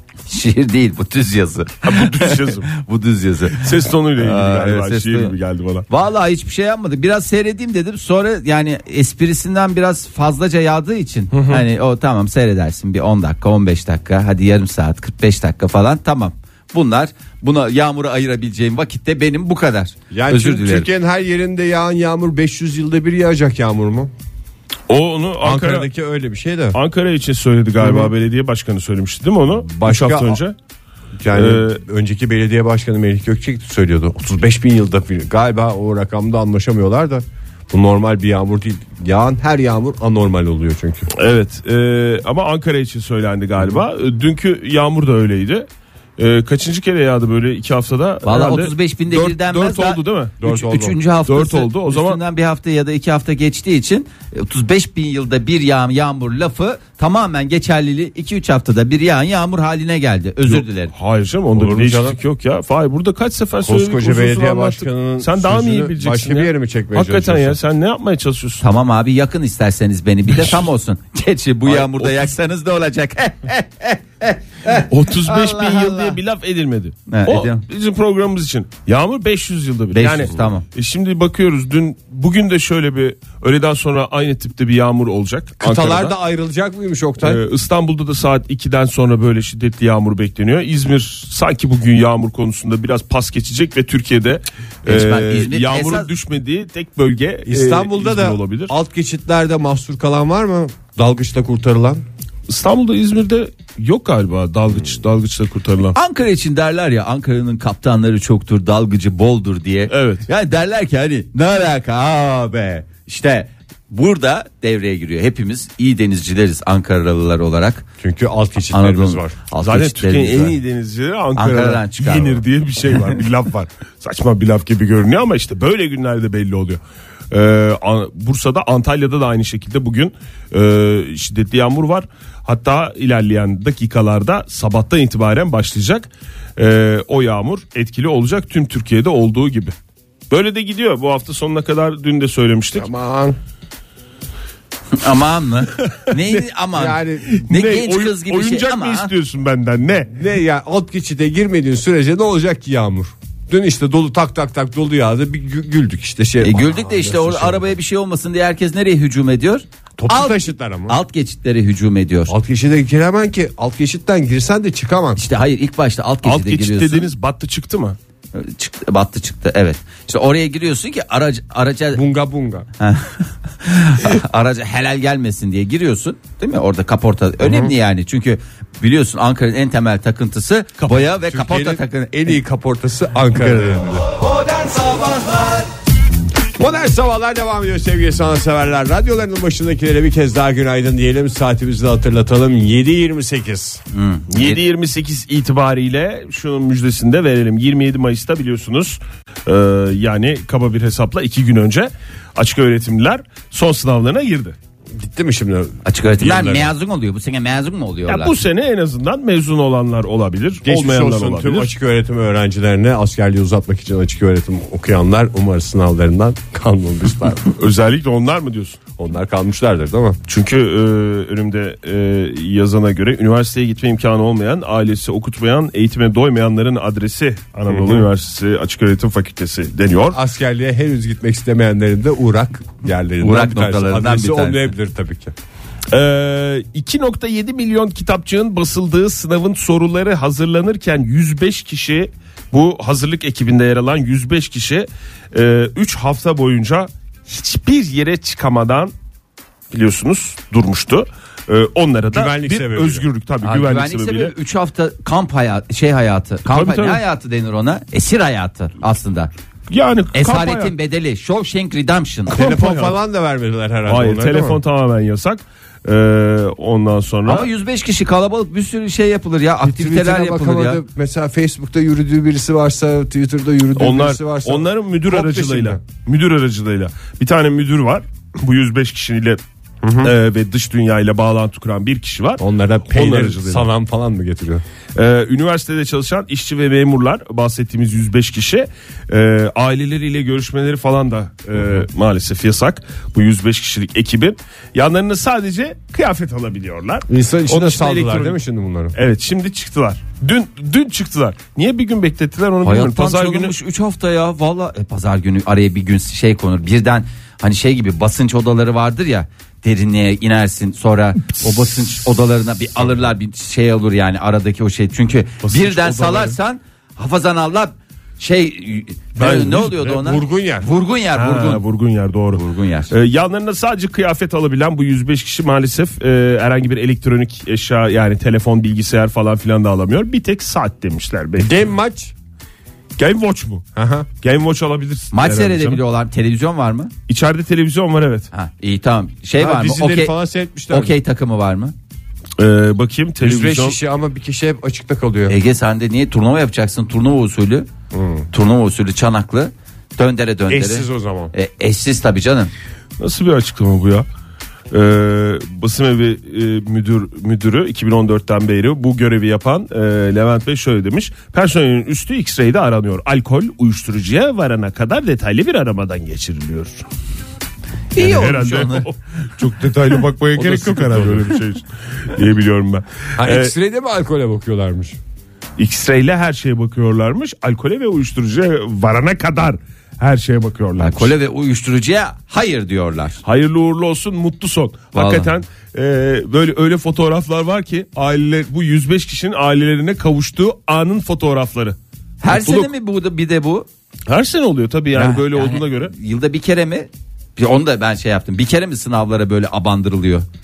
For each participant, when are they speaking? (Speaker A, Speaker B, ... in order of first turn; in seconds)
Speaker A: 0.3-5.3, 5.9-20.9, 48.2-60.9, 68.6-76.2, 77.1-77.6, 79.9-80.6, 94.8-96.1, 105.9-117.8, 118.7-120.6, 121.3-122.4, 144.9-149.1, 156.4-162.3, 165.2-167.1, 168.3-172.0, 172.8-182.4, 193.9-194.6, 205.8-208.3, 233.2-234.7, 253.4-259.3, 260.1-262.3, 267.2-270.8, 302.6-321.6, 322.3-322.9, 335.1-336.9, 338.3-340.1, 340.7-341.7, 345.3-347.7, 348.3-352.5, 367.9-368.9, 380.8-383.2, 384.9-385.3, 392.2-393.7, 394.9-400.2
Speaker B: 1.8-2.7, 3.6-5.8, 11.3-11.6, 24.9-25.9, 26.7-30.5, 31.3-31.8, 41.1-45.7, 46.2-50.4, 51.2-52.2, 60.5-68.6, 71.6-72.3, 74.9-86.1, 87.2-98.7, 102.5-105.9, 109.9-110.2, 119.6-139.7, 140.3-142.9, 147.4-150.2, 166.2-168.0, 180.8-181.1, 194.3-204.5, 208.1-211.7, 217.5-218.8, 220.3-230.2, 235.9-248.9, 249.7-254.3, 256.5-257.0, 259.7-260.7, 262.3-263.0, 263.9-267.5, 273.8-279.4, 280.0-282.4, 282.9-283.7, 284.9-298.4, 298.9-303.5, 315.4-316.4, 319.2-319.9, 321.1-331.5, 333.0-333.6, 334.2-335.8, 337.1-338.3, 342.4-343.8, 353.0-354.1, 354.7-366.8, 367.9-373.5, 375.6-381.1, 383.2-391.8, 392.3-392.7, 394.1-395.9
Speaker C: 20.1-24.1, 25.4-26.8, 27.8-28.1, 29.6-30.4, 31.2-41.1, 50.4-51.0, 61.5-62.2, 63.6-67.6, 85.6-87.4, 97.5-102.0, 118.0-119.3, 142.7-143.4, 146.7-147.4, 150.1-157.7, 160.0-161.0, 162.3-165.2, 171.9-172.7, 181.2-184.0, 186.6-193.8, 204.9-206.7, 210.6-217.5, 219.0-220.2, 227.7-228.1, 230.1-235.3, 252.1-253.0, 262.3-264.6, 269.6-275.8, 279.8-280.1, 282.4-284.6, 297.1-298.9, 319.9-320.6, 331.4-332.1, 333.8-334.1, 339.4-340.9, 343.2-345.4, 347.9-348.3, 350.5-351.3, 369.4-371.3, 373.2-375.0